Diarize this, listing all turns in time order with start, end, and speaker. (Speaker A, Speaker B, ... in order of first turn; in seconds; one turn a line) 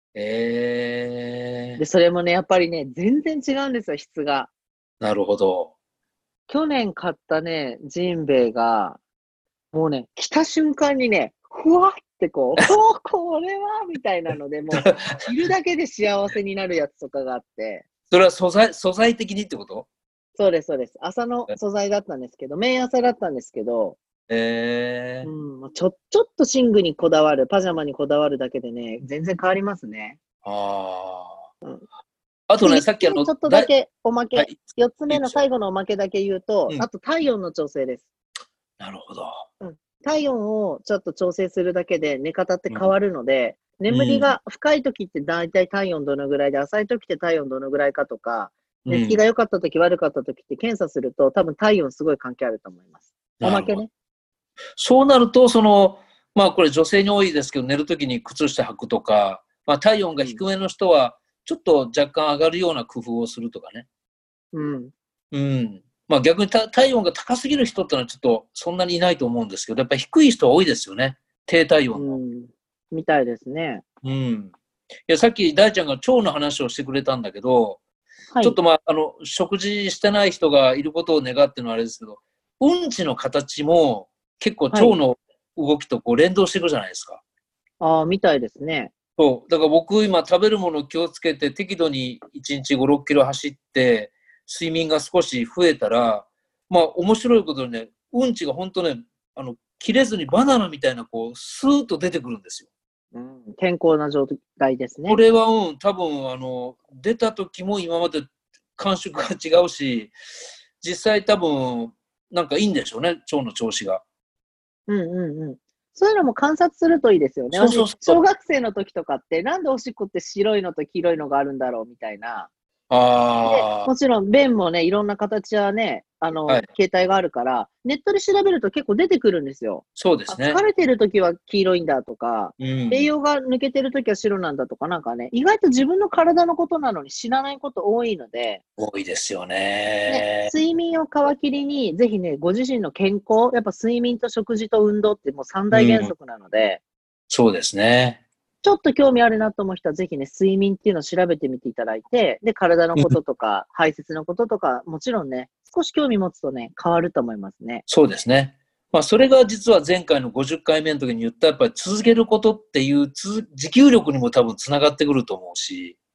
Speaker A: 0.1-1.8
Speaker B: 1.8-4.5
Speaker A: 5.0-5.7
Speaker B: 6.5-9.0
Speaker B: 9.7-17.8
Speaker A: 14.7-15.2
Speaker A: 18.1-19.9
Speaker B: 20.4-24.0
Speaker A: 24.3-25.3
Speaker B: 25.2-30.2
Speaker A: 30.4-31.4
Speaker A: 32.5-33.7
Speaker B: 32.6-38.1
Speaker A: 34.4-35.4
Speaker A: 38.8-39.5
Speaker B: 39.6-52.9
Speaker A: 43.9-44.4
Speaker A: 48.9-49.2
Speaker B: 53.4-53.9
Speaker A: 53.4-53.8
Speaker A: 54.8-63.9
Speaker B: 64.5-64.9
Speaker A: 65.3-72.2
Speaker B: 72.0-73.8
Speaker A: 74.0-74.5
Speaker A: 75.1-77.8
Speaker B: 78.3-78.6
Speaker A: 78.4-87.2
Speaker B: 87.8-88.9
Speaker A: 89.2-102.7
Speaker B: 103.1-105.2
Speaker A: 105.1-110.1
Speaker A: 110.8-114.0
Speaker B: 114.9-122.5
Speaker A: 117.5-118.2
Speaker A: 122.9-123.9
Speaker B: 123.5-138.6
Speaker A: 130.0-130.6
Speaker A: 132.6-133.1
Speaker A: 138.8-140.5
Speaker B: 140.1-146.8
Speaker A: 145.7-146.1
Speaker A: 147.3-148.2
Speaker B: 148.6-157.8
Speaker A: 157.9-166.0